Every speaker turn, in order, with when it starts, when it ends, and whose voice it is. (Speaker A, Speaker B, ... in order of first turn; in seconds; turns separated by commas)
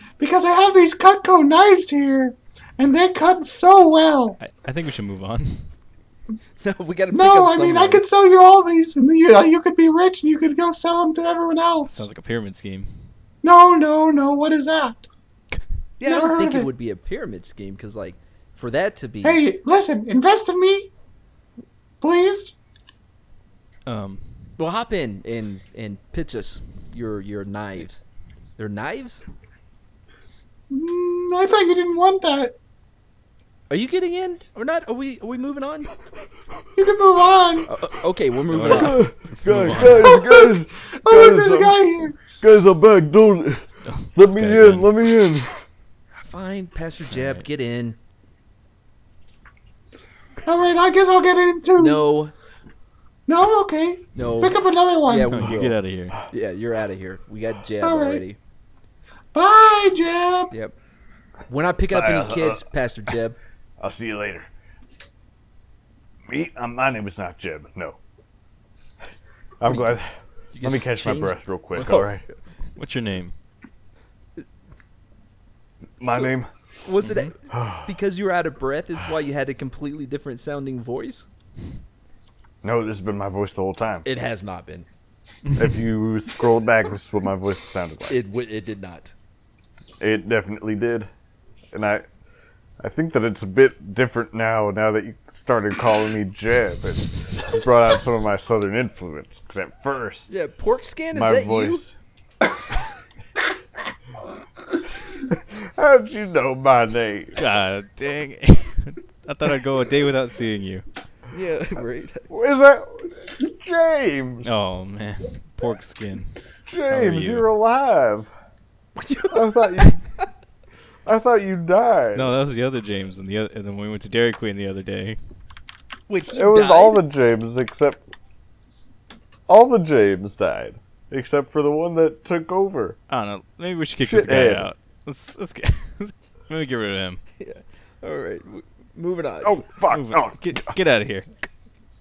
Speaker A: 0.2-4.4, Speaker B: 4.4-5.7, Speaker C: 6.6-8.0, Speaker A: 7.1-12.0, Speaker B: 11.9-12.9, Speaker A: 13.4-15.0, Speaker C: 16.0-19.4, Speaker A: 16.0-16.7, Speaker A: 19.2-20.9, Speaker A: 22.0-22.5, Speaker B: 23.9-24.3, Speaker C: 24.6-28.0, Speaker C: 28.6-29.2, Speaker A: 30.7-32.5, Speaker C: 33.7-35.9, Speaker A: 36.8-37.7, Speaker C: 37.7-39.0, Speaker B: 38.5-40.1, Speaker D: 38.7-45.5, Speaker A: 39.9-42.2, Speaker B: 43.9-44.9, Speaker C: 46.1-48.0, Speaker B: 47.1-47.4, Speaker A: 50.4-52.1, Speaker C: 51.8-52.3, Speaker A: 53.3-55.5, Speaker C: 54.1-55.8, Speaker B: 55.3-56.2, Speaker C: 56.3-58.4, Speaker A: 57.8-58.2, Speaker A: 59.3-60.5, Speaker C: 61.5-63.4, Speaker D: 61.9-62.7, Speaker D: 63.8-64.5, Speaker D: 66.3-68.0, Speaker D: 69.6-72.2, Speaker C: 70.5-72.1, Speaker B: 72.8-73.3, Speaker D: 76.0-76.5, Speaker C: 76.0-81.2, Speaker B: 77.0-77.3, Speaker D: 77.5-77.9, Speaker D: 82.6-84.0, Speaker C: 84.0-84.9, Speaker D: 85.5-88.2, Speaker C: 88.1-89.1, Speaker D: 90.0-91.1, Speaker D: 91.7-92.0, Speaker D: 92.8-100.3, Speaker C: 100.3-101.8, Speaker D: 101.1-101.9, Speaker D: 105.3-107.4, Speaker B: 107.3-110.8, Speaker C: 111.3-112.3, Speaker D: 112.3-114.6, Speaker B: 114.4-116.3, Speaker D: 116.7-118.3, Speaker B: 116.9-117.5, Speaker C: 119.0-119.3, Speaker D: 119.3-120.0, Speaker D: 121.0-122.4, Speaker B: 122.1-125.2, Speaker C: 126.1-127.0, Speaker D: 126.2-128.0, Speaker D: 129.5-133.0, Speaker B: 133.1-137.2, Speaker D: 134.0-134.7, Speaker C: 137.4-139.6, Speaker D: 139.4-140.8, Speaker B: 139.9-141.5